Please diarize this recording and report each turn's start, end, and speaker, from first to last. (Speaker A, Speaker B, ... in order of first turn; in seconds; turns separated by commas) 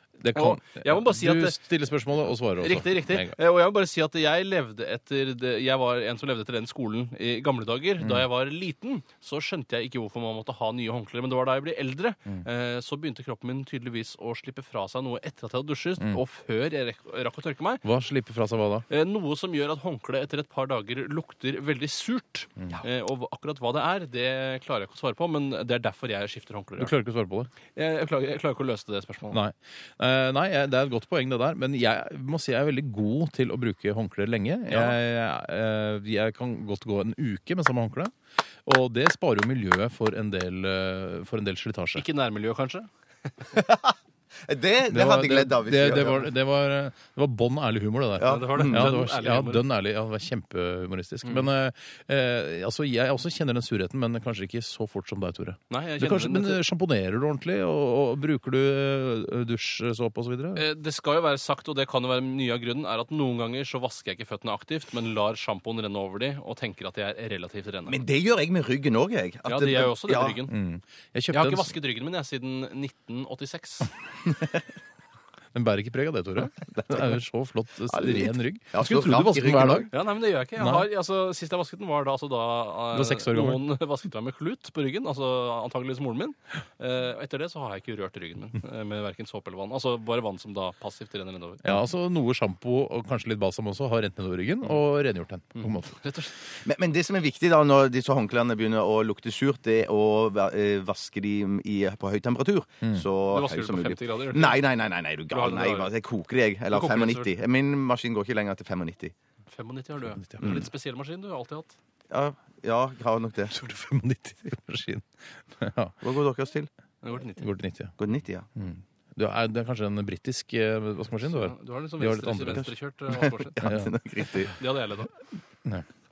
Speaker A: 0.2-3.4, Speaker B: 0.3-1.6, Speaker B: 2.6-17.9, Speaker A: 8.0-8.3, Speaker A: 17.8-18.9, Speaker B: 18.9-26.9, Speaker A: 26.8-27.5, Speaker B: 27.8-29.4, Speaker A: 29.3-38.1, Speaker A: 38.6-42.0, Speaker B: 42.0-42.9, Speaker C: 43.5-43.9, Speaker C: 44.5-46.3, Speaker A: 44.9-60.6, Speaker C: 48.2-49.0, Speaker B: 48.2-49.7, Speaker B: 55.7-56.6, Speaker B: 60.6-68.0, Speaker C: 67.9-70.4, Speaker B: 69.5-70.5, Speaker A: 70.5-71.7, Speaker B: 71.3-73.9, Speaker A: 75.5-79.9, Speaker C: 77.9-79.9, Speaker B: 79.9-91.8, Speaker A: 80.6-80.9, Speaker A: 82.9-83.6, Speaker A: 91.6-96.0, Speaker B: 95.5-96.3, Speaker C: 96.7-109.1, Speaker B: 103.3-104.6, Speaker B: 105.3-105.9, Speaker B: 106.7-107.3, Speaker B: 109.5-111.8, Speaker A: 110.2-110.6, Speaker C: 112.1-113.5, Speaker A: 113.5-116.0, Speaker C: 116.0-116.7, Speaker B: 117.0-117.5, Speaker A: 117.4-117.9, Speaker C: 118.0-118.5, Speaker A: 118.6-122.7, Speaker B: 121.3-123.6, Speaker C: 123.1-124.5, Speaker A: 123.6-123.9, Speaker B: 124.6-125.1